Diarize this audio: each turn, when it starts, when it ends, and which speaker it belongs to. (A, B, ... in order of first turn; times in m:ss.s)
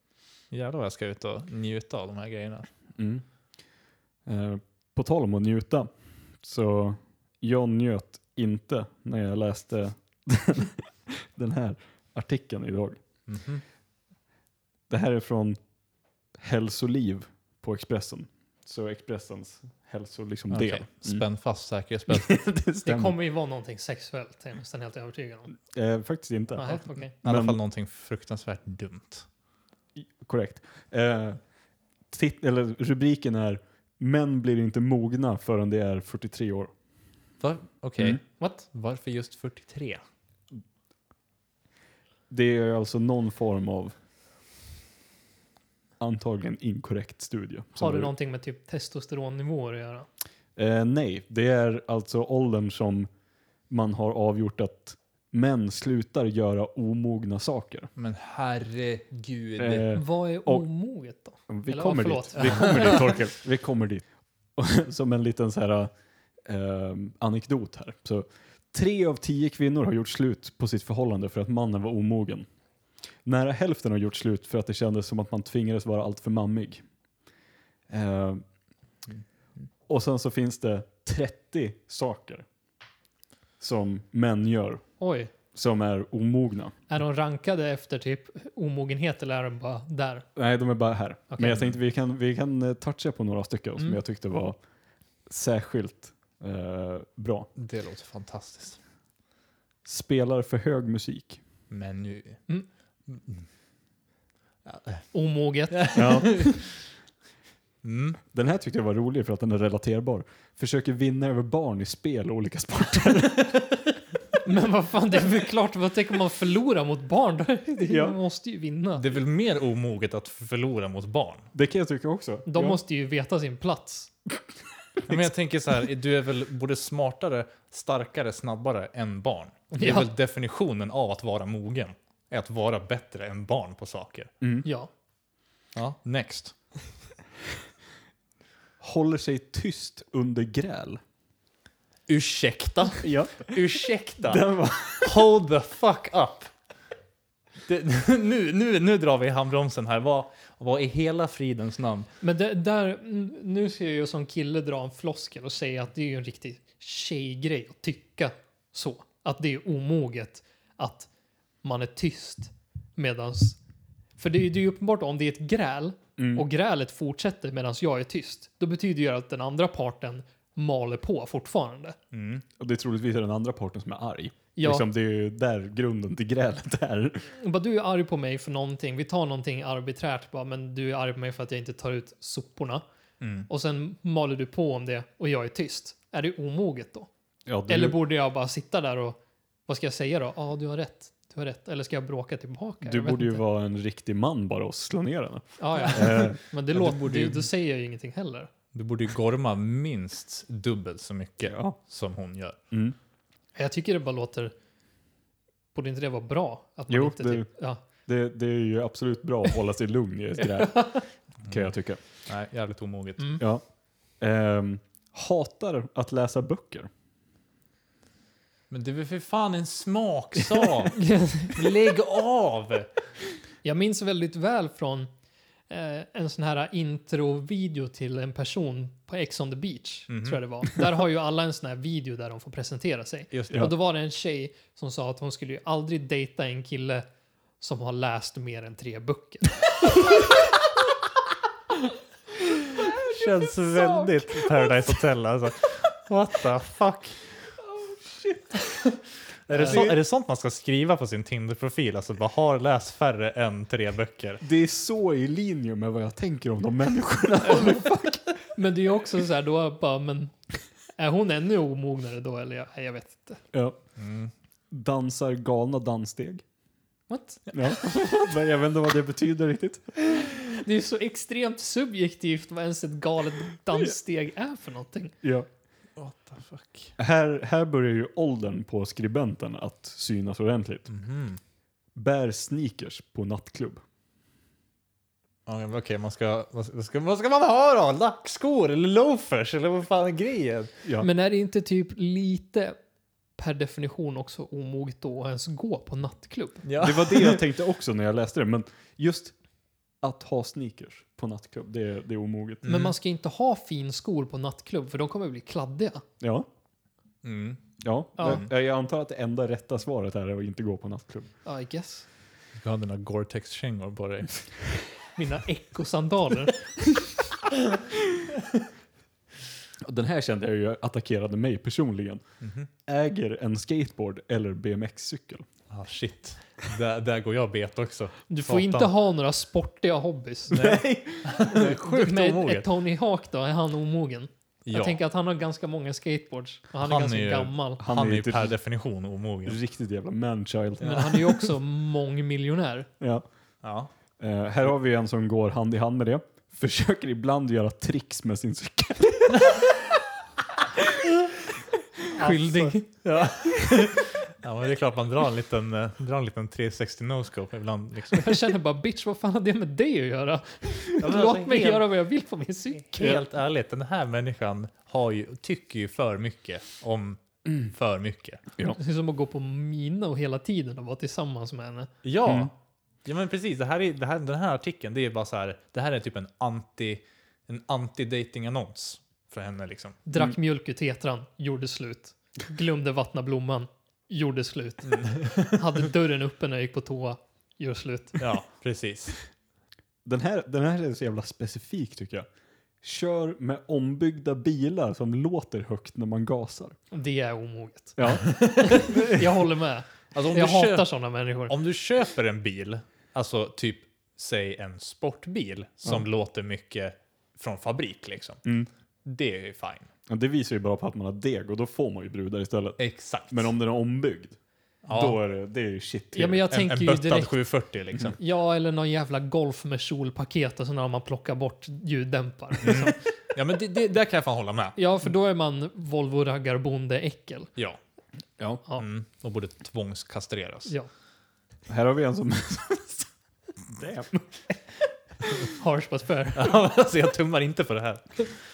0:00.5-0:02.7 A
0:03.0-0:03.2 B
0:04.3-0:05.9 B
0:06.4-0:13.0 B
0:13.3-0:13.6 A
0:14.9-0:15.6 B
0:16.4-0:21.2 B
0:20.5-0:22.5 A
0:22.1-0:23.2 B
0:22.8-0:25.6 C
0:25.7-0:27.6 B
0:26.6-0:27.1 C
0:27.2-0:29.3 A
0:30.0-0:31.4 B
0:32.1-0:36.7 B
0:37.4-0:40.0 A
0:42.3-0:43.9 B
0:46.0-0:48.1 B
0:47.8-0:50.1 C
0:50.6-0:53.1 B
0:53.7-0:57.9 B
0:58.0-0:59.9 A
0:59.6-1:00.7 B
0:59.9-1:03.1 C
1:01.5-1:05.9 B
1:06.4-1:12.5 B
1:13.2-1:16.8 B
1:17.9-1:18.4 B
1:19.9-1:22.4 B
1:23.6-1:24.8 B
1:25.0-1:25.3 C
1:25.5-1:26.8 B
1:26.9-1:30.3 C
1:30.4-1:34.6 B
1:31.3-1:31.7 C
1:35.3-1:37.5 B
1:37.6-1:38.8 A
1:39.8-1:41.4 B
1:41.7-1:42.4 A
1:43.1-1:43.5 A
1:44.7-1:45.1 A
1:45.1-1:46.4 C
1:45.7-1:46.7 A
1:46.0-1:46.5 B
1:47.8-1:48.2 A
1:48.3-1:53.7 B
1:54.4-1:59.1 C
1:57.8-1:58.2 B
1:59.0-2:01.5 A
2:01.5-2:02.8 B
2:02.5-2:04.1 C
2:05.1-2:14.3 A
2:09.7-2:10.1 C
2:14.4-2:14.7 B
2:14.6-2:14.9 C
2:15.8-2:16.6 A
2:18.8-2:21.0 B
2:22.1-2:24.5 A
2:23.0-2:23.5 B
2:24.2-2:25.2 B
2:25.0-2:26.5 A
2:27.6-2:32.1 A
2:32.2-2:41.1 C
2:41.6-2:43.6 C
2:44.2-2:52.0 C
2:46.2-2:46.4 B
2:52.1-2:52.4 A
2:52.6-2:57.3 B
2:54.6-2:54.8 C
2:57.3-3:02.8 C
3:03.2-3:03.5 A
3:03.5-3:07.1 C
3:07.5-3:08.0 B
3:07.7-3:13.4 C
3:12.8-3:16.4 B
3:15.6-3:18.5 C
3:16.7-3:17.4 A
3:18.7-3:22.6 A
3:21.4-3:21.8 B
3:22.7-3:23.0 B
3:23.6-3:24.5 C
3:25.8-3:27.8 C
3:26.9-3:27.5 B
3:28.0-3:32.0 B
3:31.4-3:31.7 A
3:32.3-3:33.4 A
3:34.2-3:36.9 B
3:38.7-3:42.9 A
3:40.9-3:41.7 C
3:43.6-3:45.1 C
3:45.7-3:57.1 C
3:50.1-3:50.4 A
3:53.3-3:53.7 A
3:57.6-4:00.4 C
4:02.9-4:07.2 A
4:08.0-4:08.4 B
4:08.7-4:14.4 A
4:09.5-4:09.8 C
4:09.6-4:10.0 B
4:14.4-4:18.2 B
4:17.5-4:20.3 C
4:21.0-4:23.4 C
4:24.0-4:24.3 A
4:24.7-4:26.4 B
4:27.1-4:28.3 C
4:27.5-4:30.3 B
4:30.1-4:35.2 C
4:36.0-4:36.9 A
4:37.0-4:40.9 B
4:40.9-4:41.4 A
4:42.0-4:43.8 B
4:45.5-4:50.7 A
4:50.8-4:51.1 B
4:51.0-4:52.8 C
4:53.4-4:56.7 C
4:56.6-4:57.4 A
4:56.8-4:59.4 B
5:00.0-5:02.6 B
5:02.6-5:02.9 A
5:02.7-5:06.0 C
5:06.2-5:06.5 B
5:07.2-5:07.6 A
5:07.8-5:11.3 B
5:08.2-5:08.4 C
5:08.2-5:08.5 A
5:11.4-5:12.1 C
5:12.6-5:14.5 A
5:15.2-5:17.1 C
5:19.8-5:22.2 B
5:22.4-5:22.7 A
5:22.8-5:25.5 B
5:25.7-5:28.9 A
5:28.3-5:30.7 C
5:30.5-5:31.8 B
5:30.5-5:32.7 A
5:31.8-5:37.8 C
5:34.7-5:35.0 A
5:36.8-5:39.6 A
5:37.8-5:38.5 B
5:39.5-5:41.2 B
5:40.8-5:42.9 C
5:40.8-5:41.3 A
5:43.0-5:43.2 B
5:43.6-5:43.9 A
5:44.2-5:49.6 B
5:52.1-5:52.8 C
5:52.2-5:58.4 A
5:58.1-6:03.2 C
6:01.0-6:01.8 A
6:02.9-6:08.4 A
6:08.8-6:11.9 C
6:12.0-6:12.5 A
6:12.3-6:12.5 B
6:13.0-6:20.0 A
6:20.1-6:28.2 C
6:24.8-6:25.6 A
6:28.2-6:29.2 A
6:30.0-6:32.3 B
6:32.8-6:36.8 B
6:36.9-6:41.5 C
6:38.0-6:39.2 B
6:38.1-6:38.9 A
6:40.1-6:40.9 A
6:41.5-6:48.4 A
6:48.4-6:48.7 B
6:49.0-6:49.9 A
6:50.1-6:54.4 B
6:52.8-6:53.5 A
6:54.8-6:55.2 A
6:54.9-6:56.5 B
6:56.1-6:57.4 C
6:56.5-6:58.2 A
6:58.2-7:03.0 C
7:02.6-7:04.8 A
7:04.8-7:07.5 C
7:08.8-7:10.8 A
7:11.7-7:13.1 B
7:13.7-7:14.5 B
7:15.4-7:16.5 C
7:16.4-7:18.3 A